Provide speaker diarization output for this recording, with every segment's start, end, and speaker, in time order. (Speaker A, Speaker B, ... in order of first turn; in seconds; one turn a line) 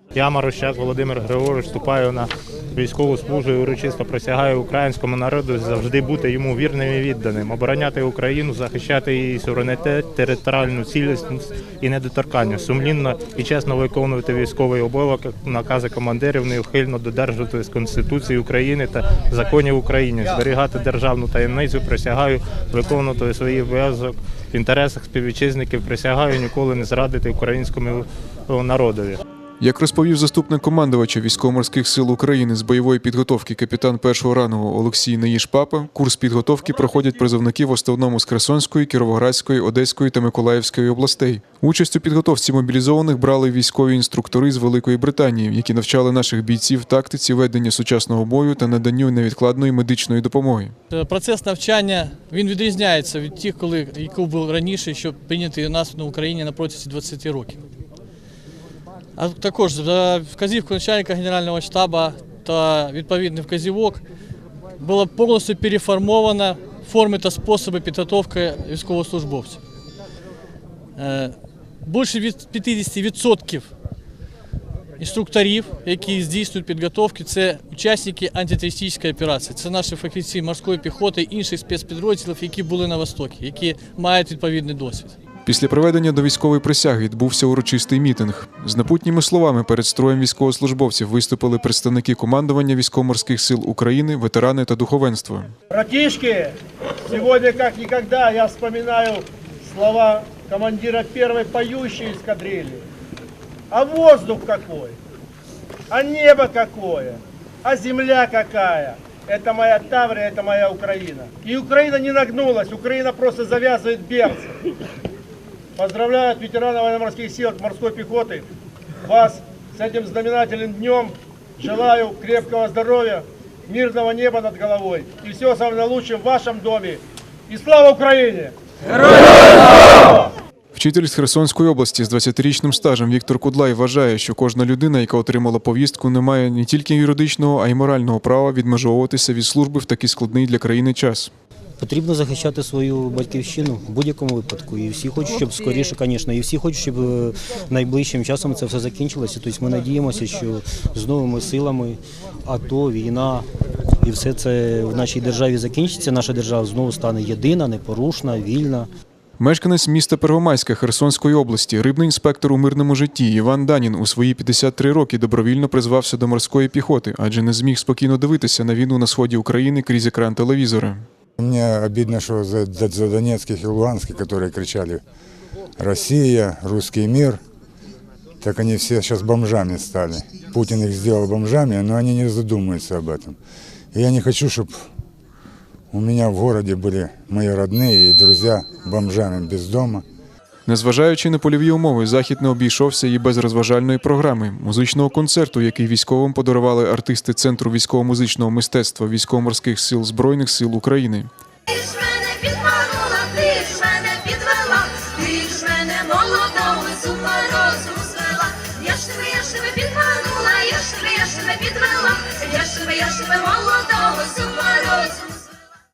Speaker A: 0.1-29.2
Speaker B: 29.6-50.7
Speaker C: 50.9-57.6
Speaker C: 59.1-64.0
Speaker C: 64.8-69.6
Speaker C: 71.0-73.7
Speaker C: 75.0-85.2
Speaker B: 85.4-95.5
Speaker D: 95.7-96.6
Speaker D: 97.1-102.8
Speaker D: 103.7-105.0
Speaker D: 105.9-114.5
Speaker D: 115.8-118.5
Speaker D: 119.0-128.5
Speaker D: 129.7-130.3
Speaker B: 130.7-141.3
Speaker E: 141.8-153.5
Speaker E: 154.0-158.9
Speaker B: 159.4-171.1
Speaker F: 171.4-175.0
Speaker F: 175.8-177.4
Speaker F: 178.4-183.4
Speaker F: 183.9-184.9
Speaker F: 185.9-190.0
Speaker B: 190.7-201.3
Speaker G: 201.7-215.5